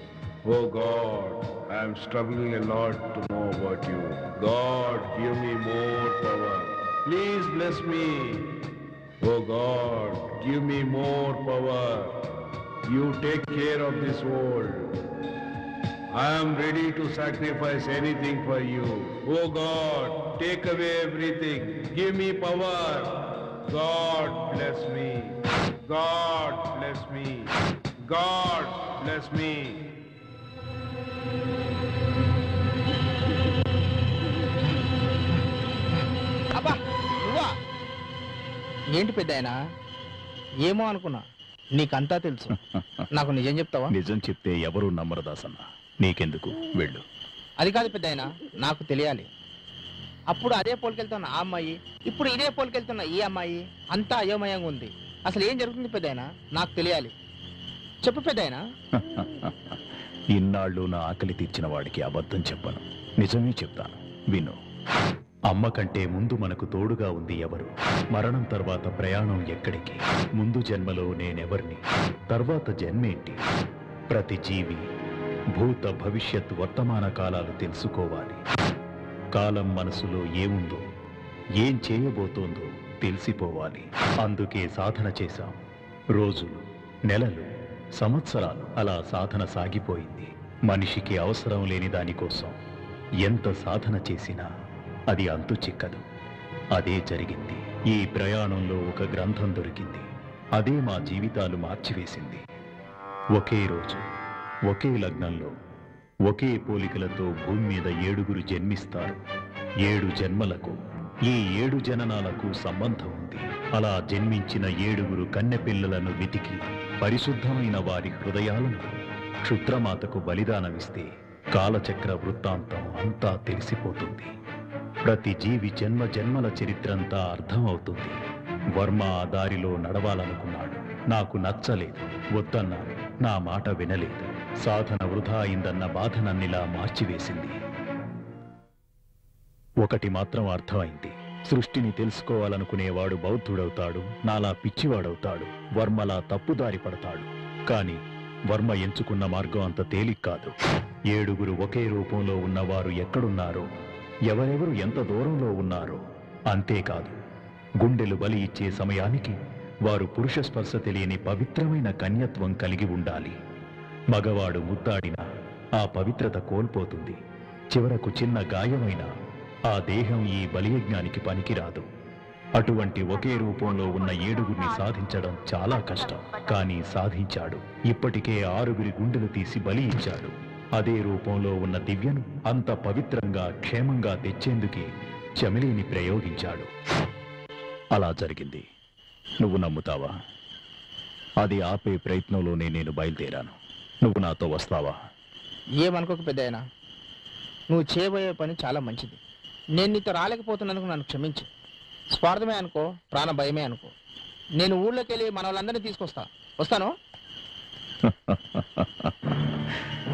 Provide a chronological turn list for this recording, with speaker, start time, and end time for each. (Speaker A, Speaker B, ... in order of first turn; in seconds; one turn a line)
Speaker A: 0.4-8.6
Speaker A: 9.2-12.3
Speaker A: 12.8-15.0
Speaker A: 16.1-30.0
Speaker B: 36.5-37.5
Speaker B: 38.9-39.6
Speaker B: 40.6-41.2
Speaker B: 41.8-42.5
Speaker C: 42.7-43.1
Speaker B: 43.1-43.9
Speaker C: 43.9-47.0
Speaker B: 47.6-49.3
Speaker B: 50.3-57.1
Speaker B: 58.0-58.6
Speaker C: 58.9-59.8
Speaker C: 60.3-64.6
Speaker C: 65.5-73.4
Speaker C: 74.1-74.8
Speaker C: 75.6-78.4
Speaker C: 79.3-80.8
Speaker C: 81.6-85.6
Speaker C: 86.2-92.5
Speaker C: 93.2-94.5
Speaker C: 95.1-96.0
Speaker C: 96.8-102.4
Speaker C: 103.3-104.0
Speaker C: 104.7-105.5
Speaker C: 106.3-109.2
Speaker C: 109.8-124.3
Speaker C: 125.1-128.2
Speaker C: 128.8-137.6
Speaker C: 139.8-150.5
Speaker C: 151.1-153.7
Speaker C: 154.3-157.2
Speaker C: 157.8-163.4
Speaker C: 164.1-165.2
Speaker C: 165.8-167.2
Speaker C: 167.7-169.1
Speaker C: 169.7-171.9
Speaker C: 172.6-186.7
Speaker C: 187.9-188.7
Speaker C: 189.4-190.1
Speaker C: 191.4-195.0
Speaker B: 195.8-196.6
Speaker B: 197.7-199.2
Speaker B: 199.8-201.5
Speaker B: 202.1-203.9
Speaker B: 204.6-206.9
Speaker C: 208.0-209.5